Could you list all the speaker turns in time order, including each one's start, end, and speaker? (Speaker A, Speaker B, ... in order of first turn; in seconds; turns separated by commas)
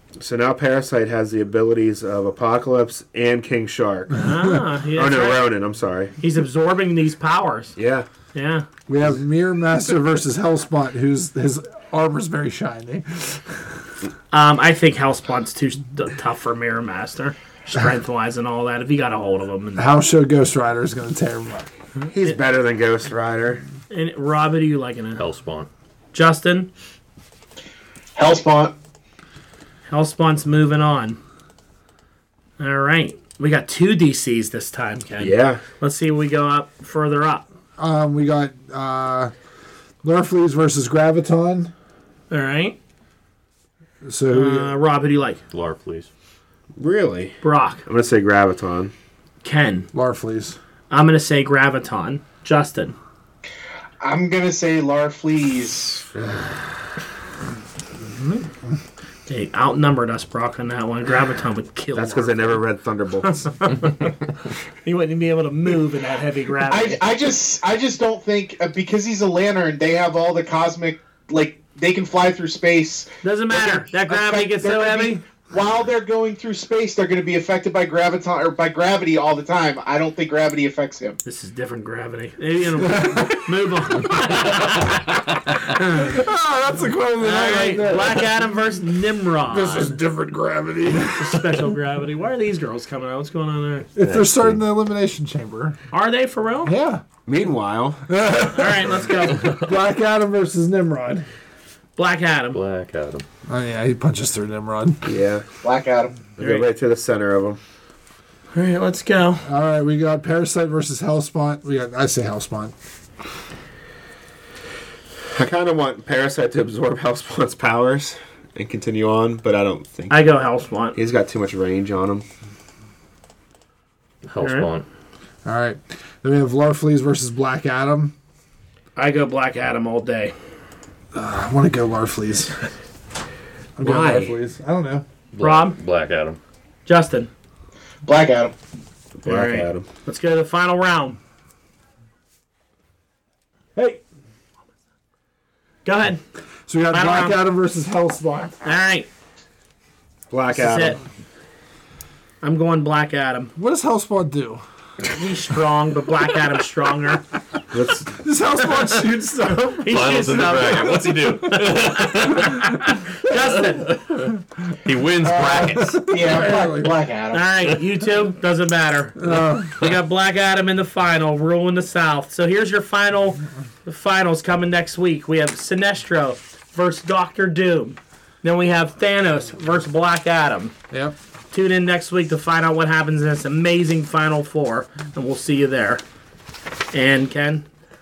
Speaker A: 0.2-4.2, Speaker B: 4.1-5.5, Speaker A: 5.0-6.1, Speaker B: 6.2-7.8, Speaker A: 7.8-8.1, Speaker B: 8.3-8.7, Speaker C: 8.9-13.6, Speaker B: 14.3-19.9, Speaker C: 19.8-21.7, Speaker B: 21.9-22.4, Speaker A: 22.1-23.6, Speaker B: 23.9-25.2, Speaker D: 25.2-25.7, Speaker B: 26.1-26.7, Speaker E: 28.1-28.7, Speaker B: 29.9-31.2, Speaker B: 32.6-37.4, Speaker A: 35.2-35.6, Speaker C: 37.8-39.3, Speaker C: 40.0-41.7, Speaker B: 42.3-42.8, Speaker C: 44.0-44.7, Speaker B: 44.3-45.4, Speaker D: 45.5-46.1, Speaker A: 46.8-48.9, Speaker B: 47.4-47.8, Speaker B: 49.4-49.9, Speaker C: 49.9-50.6, Speaker B: 50.9-53.0, Speaker E: 54.0-56.1, Speaker B: 58.0-58.5, Speaker B: 59.3-62.6, Speaker A: 61.9-63.3, Speaker B: 63.2-64.3, Speaker B: 64.8-67.0, Speaker E: 66.7-81.2, Speaker B: 73.2-75.2, Speaker B: 81.2-86.2, Speaker C: 82.8-84.3, Speaker C: 85.8-88.3, Speaker B: 87.2-90.0, Speaker C: 89.5-91.7, Speaker B: 91.2-93.9, Speaker C: 94.0-95.8, Speaker D: 94.0-94.6, Speaker B: 95.9-96.7, Speaker C: 96.6-97.0, Speaker A: 97.2-98.0, Speaker C: 98.1-101.2, Speaker B: 98.5-99.6, Speaker B: 102.0-102.6, Speaker D: 102.5-103.2, Speaker C: 103.5-105.0, Speaker A: 105.0-105.5, Speaker E: 105.6-106.3, Speaker A: 106.3-107.6, Speaker B: 106.4-106.7, Speaker B: 108.5-109.4, Speaker C: 109.4-112.7, Speaker A: 115.3-120.2, Speaker B: 120.1-121.0, Speaker A: 120.9-122.2, Speaker D: 124.2-124.8, Speaker B: 124.4-124.7, Speaker C: 125.4-128.1, Speaker B: 128.9-130.3, Speaker C: 131.1-132.5, Speaker C: 133.8-135.0, Speaker A: 133.8-134.3, Speaker D: 135.3-136.4, Speaker B: 135.4-135.8, Speaker B: 136.8-137.3, Speaker E: 138.1-138.5, Speaker A: 139.2-139.8, Speaker B: 139.2-141.2, Speaker B: 145.8-146.2, Speaker C: 146.7-148.6, Speaker B: 146.9-147.4, Speaker B: 148.6-149.1, Speaker A: 150.3-150.9, Speaker B: 150.5-151.0, Speaker B: 152.4-153.5, Speaker C: 153.6-154.6, Speaker B: 155.1-157.2, Speaker A: 157.7-158.1, Speaker C: 158.1-159.8, Speaker B: 158.6-164.0, Speaker D: 159.9-162.9, Speaker D: 164.7-165.9, Speaker E: 165.2-167.5, Speaker C: 165.8-166.9, Speaker B: 167.3-180.7, Speaker C: 169.2-169.7, Speaker C: 180.9-181.2, Speaker B: 181.5-186.0, Speaker B: 186.9-187.6